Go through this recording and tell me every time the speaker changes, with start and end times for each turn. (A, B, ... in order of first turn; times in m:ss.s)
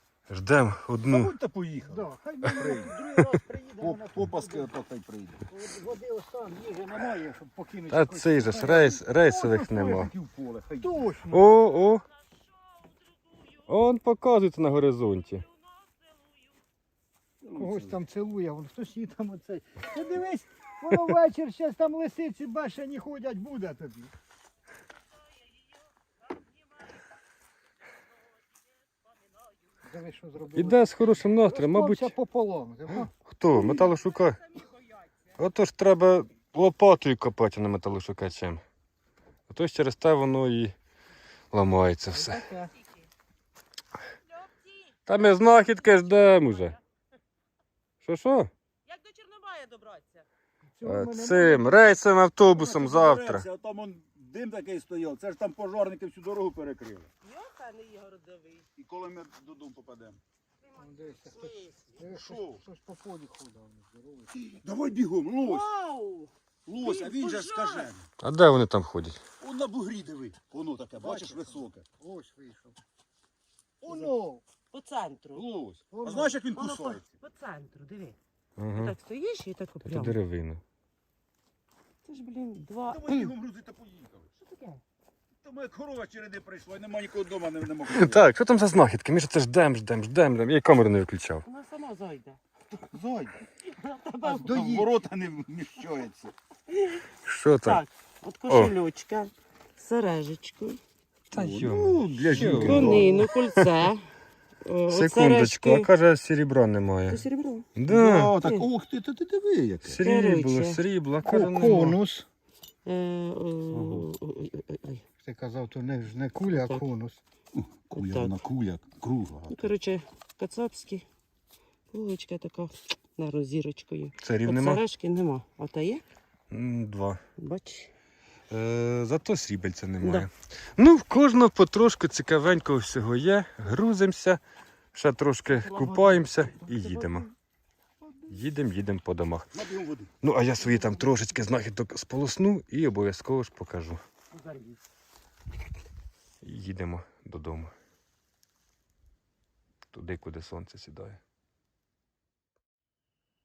0:00.3-0:01.3 A
0:01.1-0:05.4 B
0:01.9-0:04.7 C
0:05.5-0:09.0 C
0:06.9-0:07.3 B
0:07.9-0:10.1 A
0:08.6-0:11.2 B
0:10.8-0:11.5 C
0:11.3-0:12.0 A
0:12.8-0:13.6 D
0:13.7-0:15.4 A
0:15.8-0:16.3 D
0:17.4-0:18.0 B
0:17.6-0:24.1 C
0:26.3-0:26.9 D
0:29.8-0:33.1 C
0:30.6-0:32.1 A
0:32.9-0:34.4 A
0:33.8-0:35.1 D
0:35.4-0:38.6 A
0:39.5-0:40.7 A
0:41.5-0:42.5 A
0:42.1-0:42.7 C
0:44.3-0:46.8 D
0:45.1-0:46.8 A
0:48.0-0:48.5 A
0:48.9-0:50.3 D
0:50.8-0:52.0 C
0:50.8-0:53.5 A
0:52.5-0:57.1 B
0:57.2-0:58.7 D
0:58.8-1:00.2 B
1:00.6-1:01.8 D
1:00.8-1:04.4 C
1:02.0-1:02.6 B
1:04.4-1:05.7 B
1:05.4-1:07.9 D
1:06.7-1:08.1 B
1:08.2-1:09.2 A
1:09.4-1:11.8 B
1:11.0-1:12.8 C
1:13.8-1:14.4 C
1:13.8-1:14.1 B
1:14.7-1:15.5 D
1:15.4-1:17.0 B
1:15.9-1:16.4 C
1:16.5-1:18.2 D
1:18.6-1:18.9 A
1:18.8-1:20.2 D
1:19.8-1:20.6 A
1:22.0-1:23.3 D
1:22.9-1:24.3 B
1:24.4-1:24.8 D
1:25.4-1:28.3 B
1:27.9-1:31.4 A
1:31.4-1:32.4 D
1:32.9-1:33.4 B
1:33.6-1:34.9 D
1:34.3-1:34.9 C
1:34.3-1:36.3 B
1:36.7-1:37.1 D
1:37.3-1:37.8 A
1:37.6-1:40.8 D
1:38.5-1:38.7 A
1:41.3-1:43.3 B
1:41.3-1:43.6 A
1:42.3-1:44.1 D
1:44.6-1:45.9 D
1:44.9-1:47.2 A
1:47.1-1:47.7 D
1:47.8-1:48.3 A
1:47.9-1:50.0 B
1:48.4-1:48.7 D
1:49.8-1:52.0 A
1:50.0-1:50.8 D
1:51.2-1:52.3 C
1:52.8-1:55.0 D
1:53.7-1:54.1 B
1:55.2-1:57.2 C
1:56.5-1:56.8 D
1:57.5-1:59.7 B
1:57.9-1:58.4 D
1:59.5-2:01.0 D
2:01.9-2:06.1 D
2:04.2-2:04.8 A
2:06.5-2:07.2 A
2:07.4-2:07.9 D
2:08.5-2:14.4 A
2:10.0-2:10.3 D
2:14.9-2:17.3 A
2:15.5-2:17.3 D
2:18.0-2:18.3 D
2:18.3-2:19.6 A
2:19.5-2:20.2 B
2:20.2-2:24.0 A
2:20.7-2:21.0 D
2:24.3-2:24.8 D
2:26.4-2:27.7 A
2:29.9-2:31.2 A